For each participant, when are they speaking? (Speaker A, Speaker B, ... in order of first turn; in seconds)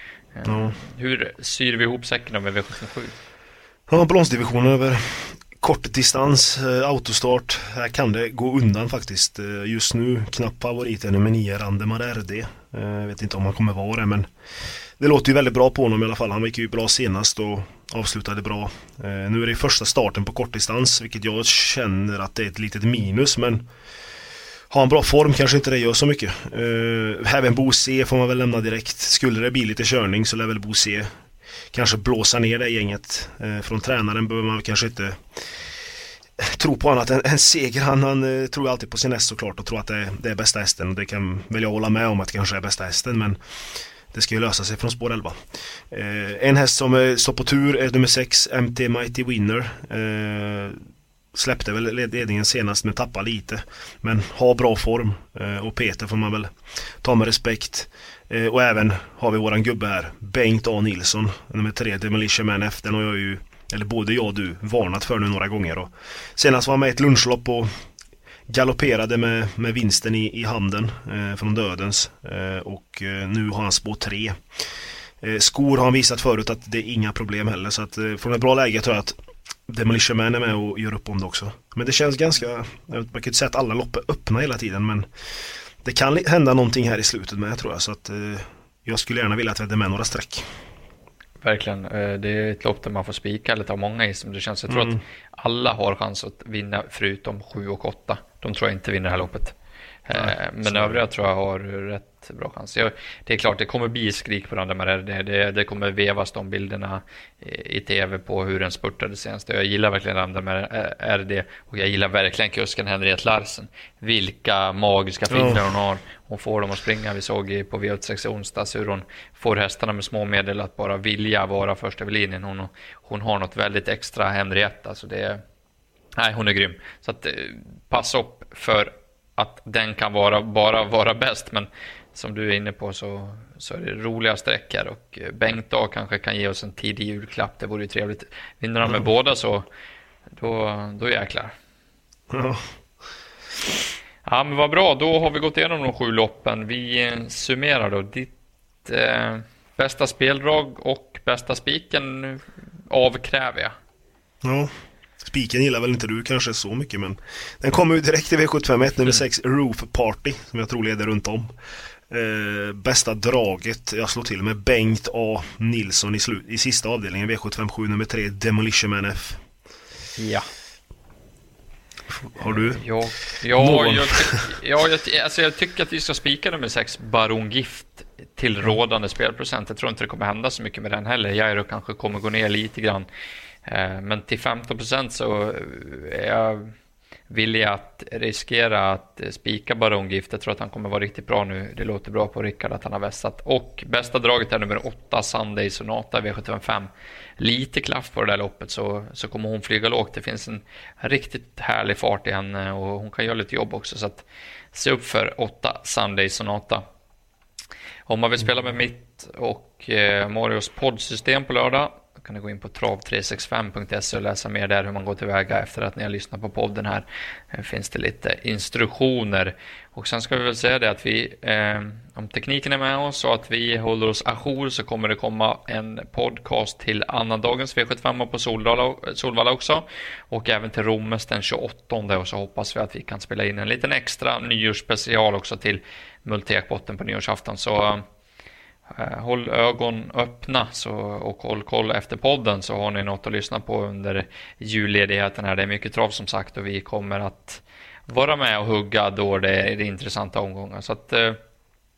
Speaker A: 0.3-3.2, 91.4-99.5, 100.1-125.4, 126.2-139.7, 140.4-141.5, 144.2-148.3, 148.8-153.8, 170.2-170.5, 172.4-183.1, 183.7-186.7, 187.3-206.8, 208.1-238.1, 238.9-251.4
Speaker B: 0.5-0.8, 3.9-14.3, 15.0-23.7, 24.7-31.1, 31.7-35.4, 36.4-43.4, 44.1-50.8, 51.3-67.7, 68.5-74.4, 75.2-85.1, 85.8-90.5, 94.7-95.0, 100.1-101.0, 115.3-115.6, 142.3-142.7, 154.4-161.5, 162.1-169.4, 172.2-172.8, 173.5-174.5